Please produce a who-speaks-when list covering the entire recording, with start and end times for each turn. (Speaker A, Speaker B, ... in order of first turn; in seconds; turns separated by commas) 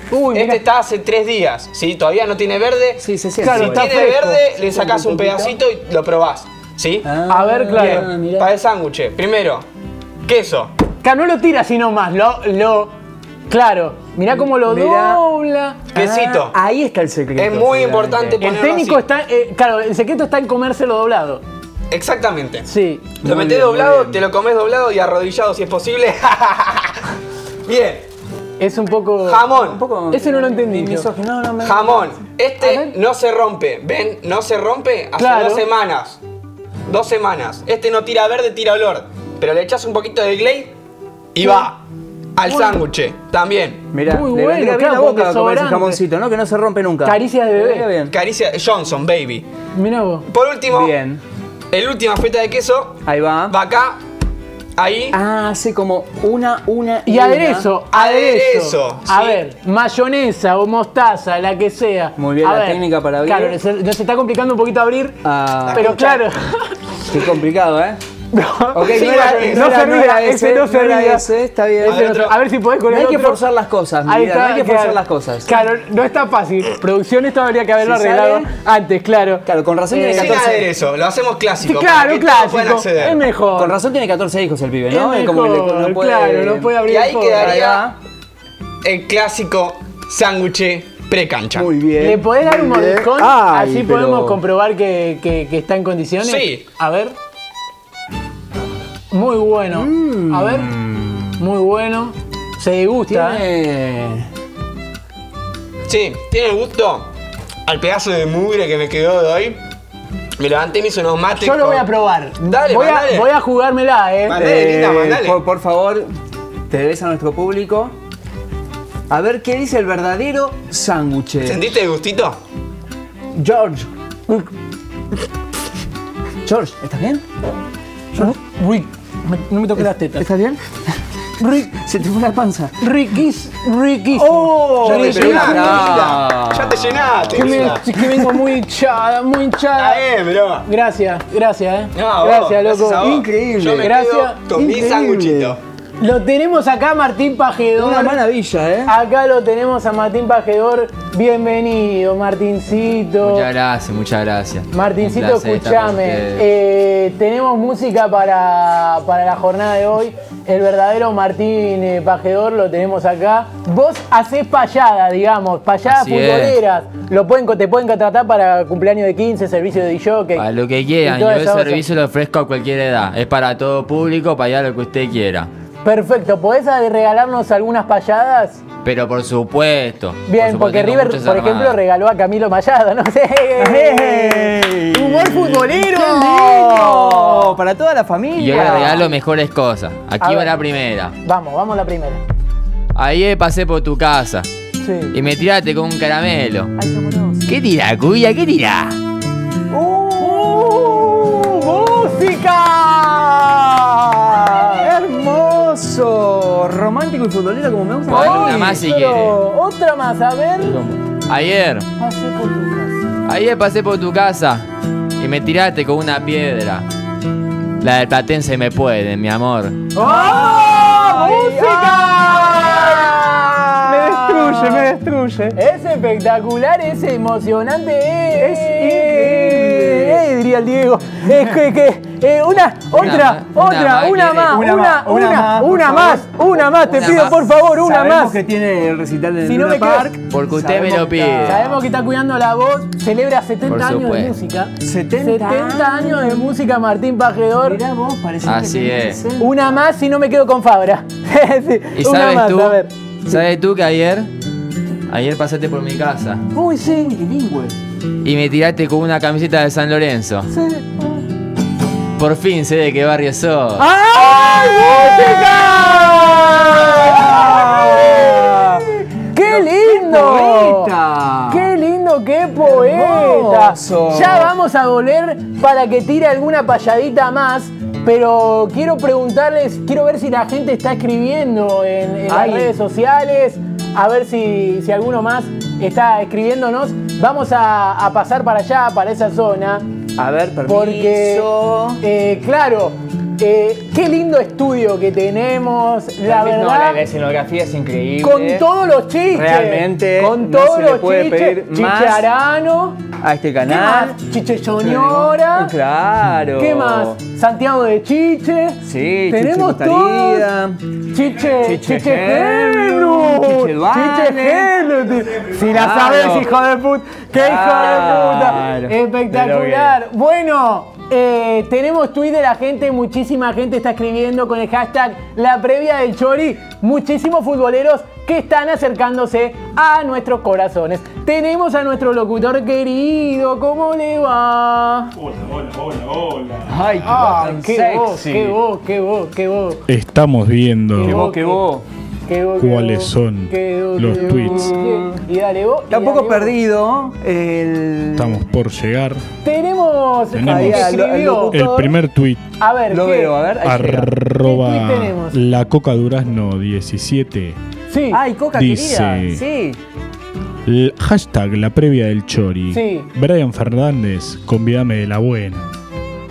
Speaker A: 0.1-0.6, Speaker B: 0.3-7.1, Speaker C: 3.0-5.5, Speaker A: 3.4-4.4, Speaker C: 7.0-8.5, Speaker A: 7.3-8.1, Speaker B: 7.7-9.7, Speaker B: 10.2-10.7, Speaker A: 11.0-12.9, Speaker A: 13.5-15.8, Speaker C: 14.3-15.2, Speaker B: 15.9-16.5, Speaker C: 15.9-18.4, Speaker B: 17.4-19.0, Speaker A: 18.4-21.4, Speaker B: 21.9-22.6, Speaker A: 22.6-23.1, Speaker C: 23.2-24.2, Speaker B: 23.2-27.0, Speaker B: 27.6-28.0, Speaker A: 28.6-29.4, Speaker B: 29.2-29.8, Speaker C: 29.5-32.1, Speaker A: 30.1-31.1, Speaker B: 31.6-36.2, Speaker A: 32.6-32.9, Speaker A: 35.2-35.6, Speaker B: 36.9-40.7, Speaker B: 41.3-41.8, Speaker B: 42.4-43.8, Speaker A: 42.4-42.8, Speaker C: 43.9-48.1, Speaker A: 44.0-46.0, Speaker A: 47.0-47.9, Speaker B: 48.1-49.5, Speaker A: 49.7-50.3, Speaker B: 50.3-50.9, Speaker C: 50.7-51.2, Speaker B: 51.7-54.0, Speaker C: 53.0-53.5, Speaker B: 54.8-55.2, Speaker C: 55.1-57.7, Speaker A: 57.0-65.2, Speaker B: 57.9-59.4, Speaker C: 62.2-63.6, Speaker C: 65.2-66.2, Speaker B: 65.7-66.0, Speaker A: 65.7-66.7, Speaker C: 67.1-68.0, Speaker A: 68.3-71.3, Speaker C: 68.7-72.0, Speaker B: 68.8-69.7, Speaker A: 71.8-73.4, Speaker B: 71.8-72.3, Speaker C: 72.9-75.6, Speaker A: 74.0-80.5, Speaker C: 77.8-78.5, Speaker C: 79.5-80.7, Speaker B: 80.1-83.2, Speaker A: 81.6-83.8, Speaker C: 83.5-86.8, Speaker A: 84.9-87.7, Speaker B: 86.8-87.9, Speaker C: 87.3-88.0, Speaker B: 88.8-91.7, Speaker C: 91.5-94.4, Speaker A: 92.0-97.1, Speaker B: 96.2-96.6, Speaker A: 99.1-100.7, Speaker C: 99.7-101.4, Speaker A: 101.4-103.4, Speaker C: 103.1-104.3, Speaker B: 105.9-107.1, Speaker B: 107.7-109.6, Speaker B: 110.4-111.9, Speaker A: 111.4-114.4, Speaker B: 112.4-113.3, Speaker B: 114.3-115.4, Speaker C: 114.3-116.1, Speaker C: 116.7-117.9, Speaker C: 119.1-121.6, Speaker B: 121.4-122.4, Speaker C: 123.3-123.9, Speaker C: 126.4-127.2, Speaker A: 128.2-130.3, Speaker C: 129.8-130.7, Speaker A: 131.4-131.7, Speaker C: 131.5-132.8, Speaker A: 132.8-136.1, Speaker C: 134.1-138.5, Speaker B: 134.8-137.8, Speaker A: 137.3-140.0, Speaker B: 139.8-140.6, Speaker A: 140.6-143.2, Speaker B: 141.9-145.6, Speaker C: 142.9-143.9, Speaker A: 143.8-144.4, Speaker C: 144.5-145.6, Speaker A: 146.0-148.2, Speaker C: 147.8-148.9, Speaker A: 148.8-153.5, Speaker D: 153.2-156.4, Speaker A: 154.7-170.4, Speaker D: 165.8-166.6, Speaker D: 170.3-175.5, Speaker A: 171.0-171.8, Speaker A: 175.8-178.6, Speaker D: 178.8-181.8, Speaker A: 180.3-187.6, Speaker C: 183.6-189.1, Speaker D: 188.3-191.1, Speaker A: 188.5-189.1, Speaker A: 190.2-190.6, Speaker A: 191.2-192.2, Speaker D: 192.9-194.5, Speaker A: 194.8-195.2, Speaker D: 195.1-196.7, Speaker C: 196.8-197.5, Speaker D: 197.4-199.0, Speaker C: 199.7-202.1, Speaker A: 200.2-204.8, Speaker C: 204.3-208.8, Speaker D: 208.1-209.4, Speaker A: 208.1-210.8, Speaker D: 210.8-211.8, Speaker A: 212.0-213.0, Speaker D: 213.2-214.7, Speaker D: 215.2-216.8, Speaker D: 217.8-219.8, Speaker A: 219.9-224.9, Speaker C: 220.0-225.6, Speaker A: 225.5-238.4, Speaker C: 228.3-230.3, Speaker D: 232.9-234.6, Speaker C: 234.5-236.4, Speaker D: 236.8-237.4, Speaker C: 237.7-241.8, Speaker A: 239.4-240.2, Speaker D: 240.3-241.6, Speaker A: 241.4-247.8, Speaker D: 243.6-244.3, Speaker C: 244.8-246.6, Speaker C: 247.6-249.8, Speaker D: 248.4-249.2, Speaker A: 249.4-252.9, Speaker D: 251.9-254.3, Speaker D: 255.1-256.4, Speaker C: 256.5-257.8, Speaker A: 256.6-257.1, Speaker D: 258.2-260.5, Speaker A: 260.5-261.2, Speaker D: 262.2-263.9, Speaker A: 263.8-270.9, Speaker C: 264.1-271.7, Speaker A: 271.5-289.9, Speaker C: 272.6-274.5, Speaker C: 282.3-282.7, Speaker C: 290.2-292.0, Speaker A: 290.6-291.5, Speaker A: 292.0-297.0, Speaker C: 296.2-298.6, Speaker A: 298.2-303.0, Speaker C: 299.3-302.2, Speaker C: 303.2-304.2, Speaker A: 303.6-305.7, Speaker C: 304.8-307.2, Speaker A: 306.5-310.5, Speaker C: 308.8-310.8, Speaker A: 311.1-335.1, Speaker C: 311.4-316.5, Speaker C: 317.3-320.0, Speaker E: 335.2-336.7, Speaker C: 336.7-338.6, Speaker A: 337.0-339.8, Speaker E: 339.9-341.3, Speaker A: 340.9-341.6, Speaker C: 341.0-341.8, Speaker A: 342.2-346.6, Speaker E: 342.6-344.7, Speaker C: 344.1-345.2, Speaker C: 345.9-348.4, Speaker E: 348.2-349.2, Speaker A: 349.4-351.6, Speaker E: 350.3-350.9, Speaker C: 350.4-352.0, Speaker E: 351.5-352.4, Speaker A: 352.6-353.4, Speaker C: 352.9-354.1, Speaker E: 353.6-357.6, Speaker A: 354.4-355.4, Speaker A: 357.9-358.2, Speaker C: 358.1-359.8, Speaker E: 358.5-359.4, Speaker E: 360.7-365.7, Speaker A: 362.7-363.1